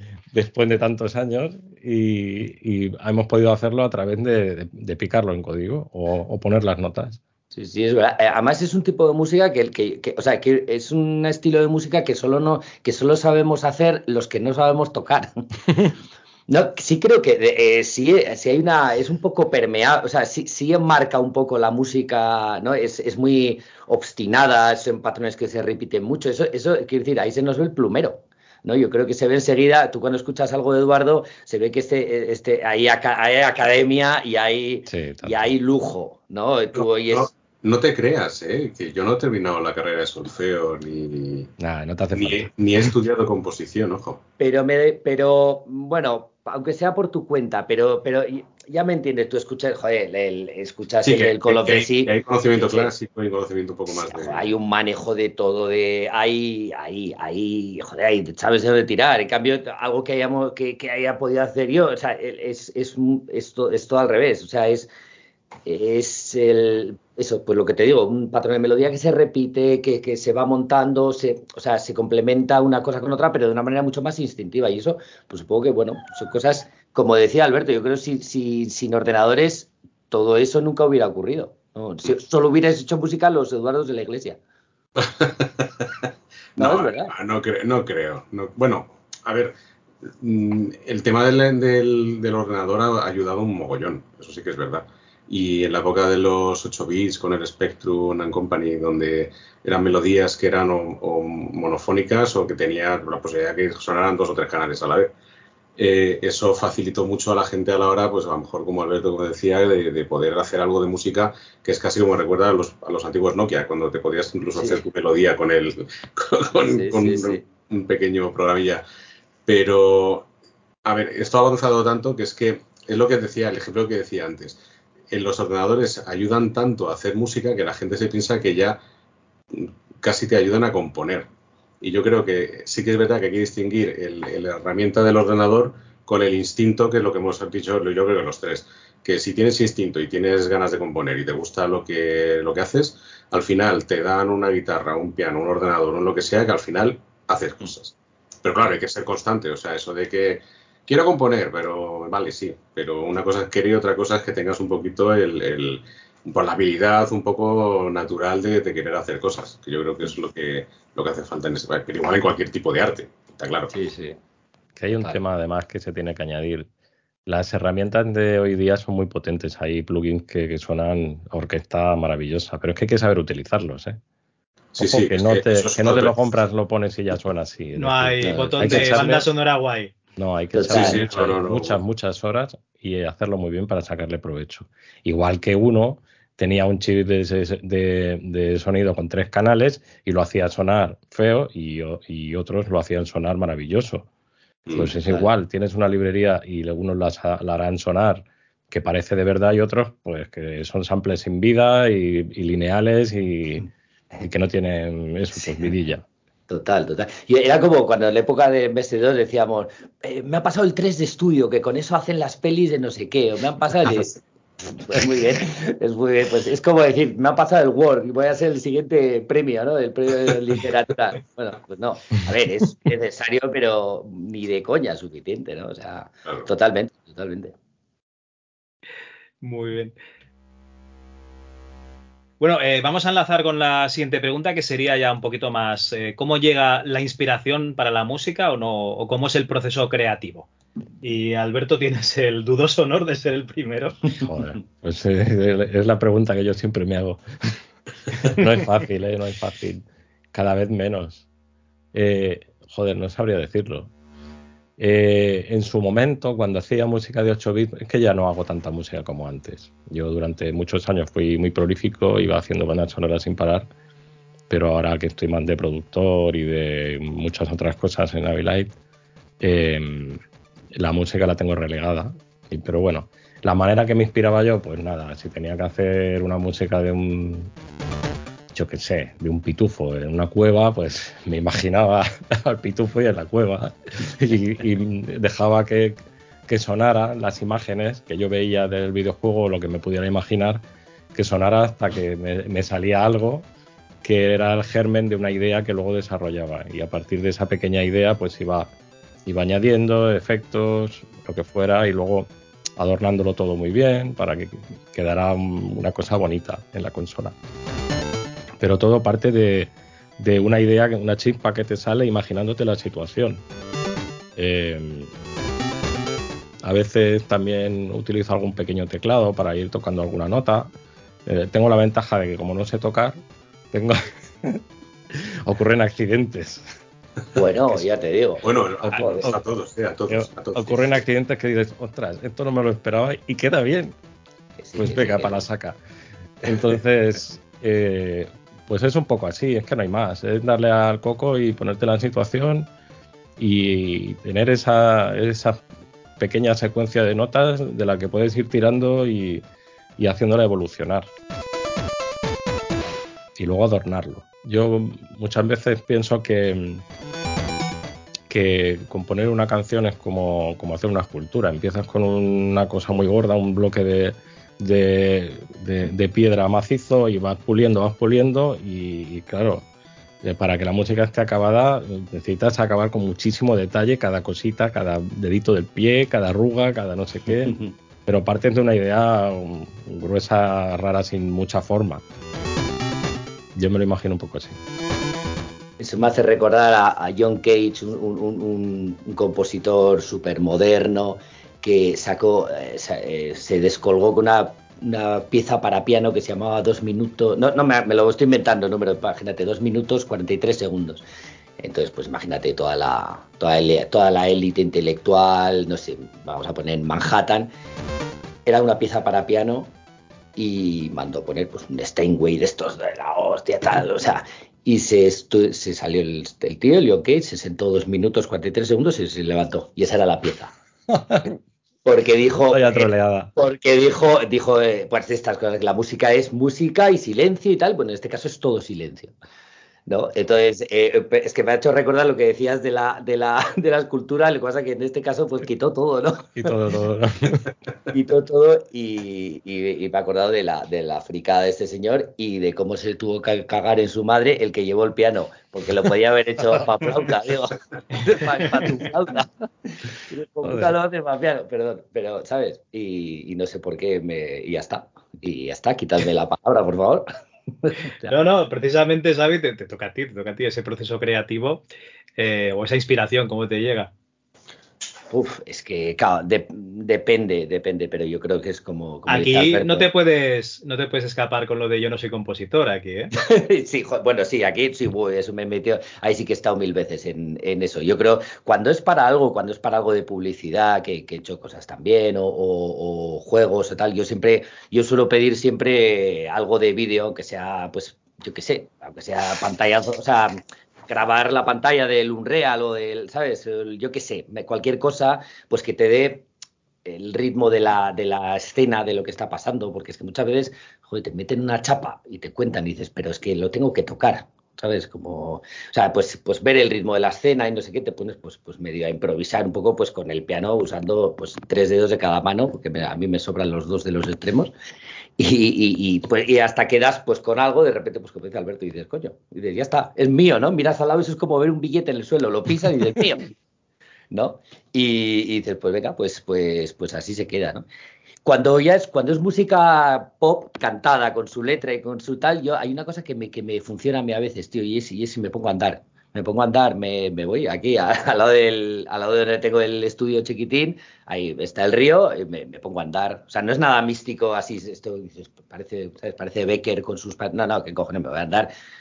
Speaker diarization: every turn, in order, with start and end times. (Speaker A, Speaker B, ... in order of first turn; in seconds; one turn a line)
Speaker A: 0.3-7.2
Speaker B: 7.5-15.5
Speaker B: 16.5-37.3
Speaker A: 34.9-35.5
Speaker C: 37.1-41.5
Speaker A: 41.6-42.5
Speaker C: 42.1-44.2
Speaker B: 44.4-52.9
Speaker C: 51.0-54.5
Speaker B: 53.9-64.9
Speaker B: 65.7-84.4
Speaker C: 85.0-89.5
Speaker B: 86.6-87.1
Speaker C: 90.1-105.1
Speaker C: 105.8-118.8
Speaker B: 116.7-117.4
Speaker C: 119.5-120.3
Speaker C: 120.8-124.6
Speaker C: 125.1-128.8
Speaker C: 129.5-131.3
Speaker C: 131.8-163.7
Speaker B: 163.7-164.2
Speaker A: 164.8-166.7
Speaker A: 167.3-174.0
Speaker C: 174.8-176.2
Speaker A: 174.8-179.3
Speaker D: 177.8-179.9
Speaker B: 178.2-179.0
Speaker A: 180.2-194.1
Speaker B: 180.5-181.1
Speaker C: 180.7-181.8
Speaker C: 194.7-194.9
Speaker A: 194.7-203.7
Speaker B: 195.0-195.3
Speaker A: 204.2-206.1
Speaker B: 206.5-214.2
Speaker B: 214.8-227.6
Speaker D: 229.4-229.9
Speaker D: 232.4-240.5
Speaker D: 241.0-244.2
Speaker A: 244.2-247.6
Speaker A: 248.1-251.3
Speaker A: 251.9-253.9
Speaker A: 254.8-263.7
Speaker A: 264.5-268.7
Speaker A: 269.4-270.2
Speaker A: 270.7-277.5
Speaker A: 278.5-290.6
Speaker A: 291.1-293.5
Speaker A: 294.0-298.7
Speaker A: 299.3-307.3
Speaker A: 308.6-313.4
Speaker A: 314.4-315.1
Speaker A: 316.6-320.7
Speaker A: 321.3-323.2
Speaker A: 323.7-326.7
Speaker B: 327.3-329.3
Speaker C: 328.4-331.0
Speaker A: 328.8-329.4
Speaker A: 330.1-333.9
Speaker B: 334.6-335.4
Speaker A: 334.8-335.8
Speaker A: 336.4-342.7
Speaker A: 343.4-345.6
Speaker A: 346.2-349.4
Speaker A: 350.0-351.1
Speaker A: 353.4-356.8
Speaker A: 358.3-369.6
Speaker A: 370.2-382.0
Speaker A: 383.6-384.6
Speaker B: 385.8-401.0
Speaker B: 401.6-407.5
Speaker B: 408.5-409.7
Speaker B: 410.4-420.5
Speaker A: 420.9-421.3
Speaker B: 421.9-429.1
Speaker A: 422.5-423.3
Speaker B: 429.9-436.6
Speaker A: 436.4-437.5
Speaker B: 437.9-457.1
Speaker A: 450.4-450.7
Speaker B: 457.6-458.2
Speaker D: 458.1-461.6
Speaker D: 462.2-463.9
Speaker B: 465.1-469.9
Speaker D: 469.1-473.1
Speaker B: 473.2-496.2
Speaker B: 496.9-514.5
Speaker B: 515.2-523.3
Speaker B: 524.1-527.6
Speaker B: 528.2-548.5